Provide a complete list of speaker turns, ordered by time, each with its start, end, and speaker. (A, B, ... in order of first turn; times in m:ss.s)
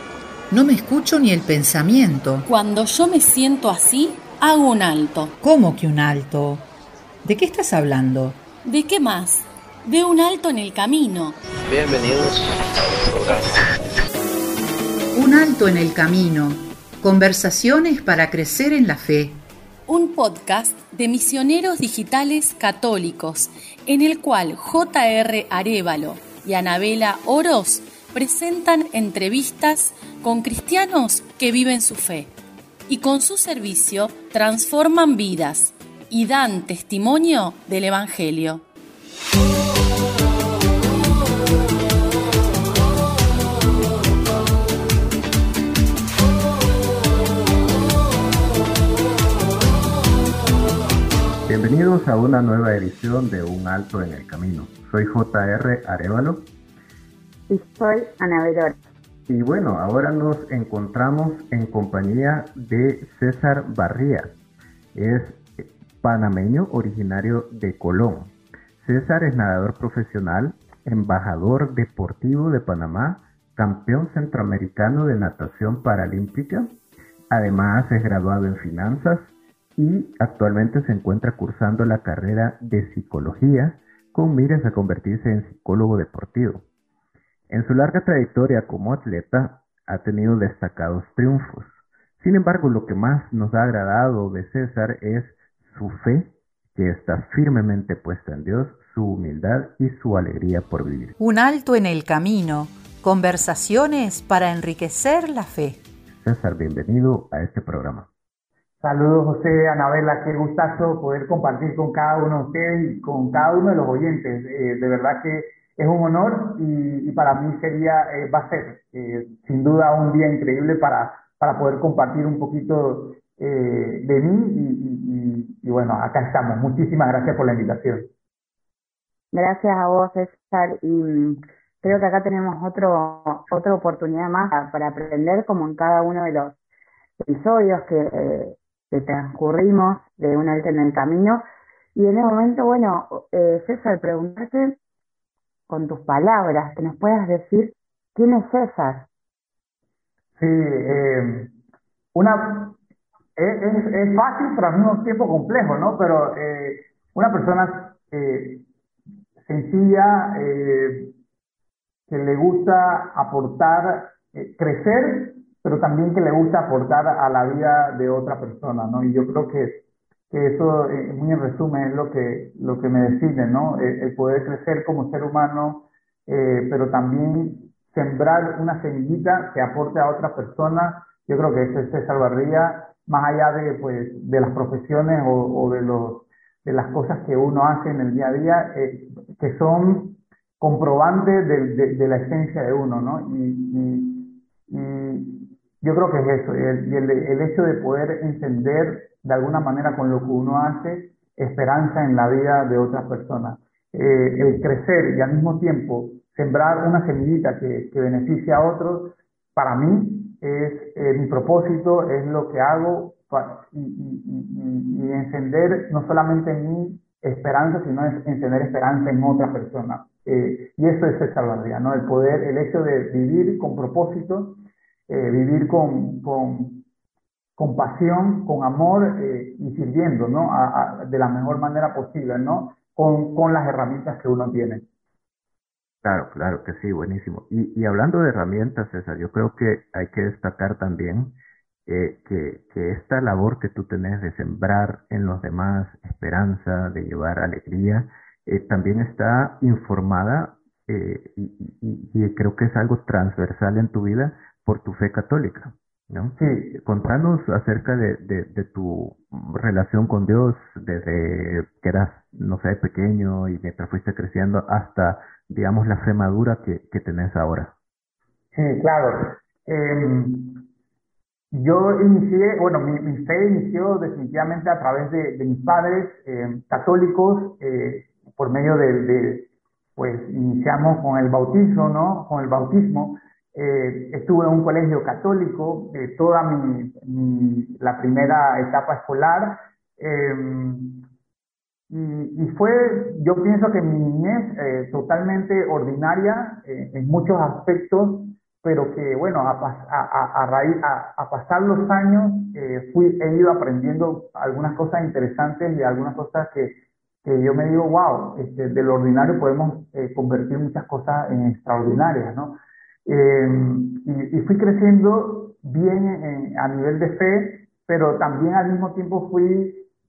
0:00.5-0:02.4 A
0:02.4-0:05.3 B
0:05.4-0:06.6 A
0:07.2-0:08.4 A
0:08.6-0:11.4 B
0:11.6-0:13.7 C
0:15.1-0:19.4 A
0:19.9-0:32.3 B
0:32.9-0:38.6 B
0:51.5-0:56.5 D
0:57.5-0:58.8 E
0:59.3-1:04.3 D
1:04.9-1:16.7 D
1:17.3-1:26.6 D
1:27.5-1:41.2 D
1:41.2-1:45.8 A
1:46.1-1:48.1 D
1:48.8-2:08.1 F
2:09.3-2:16.6 E
2:17.2-2:21.4 E
2:21.9-2:24.8 E
2:25.7-2:29.1 E
2:30.4-2:31.5 F
2:32.1-2:32.8 F
2:33.4-2:38.6 F
2:39.4-2:41.1 F
2:42.1-3:46.8 F
3:47.6-3:54.8 F
3:56.0-4:01.3 D
4:01.9-4:27.7 D
4:16.4-4:16.7 F
4:28.5-4:30.6 F
4:31.5-4:51.0 F
4:51.9-5:19.9 F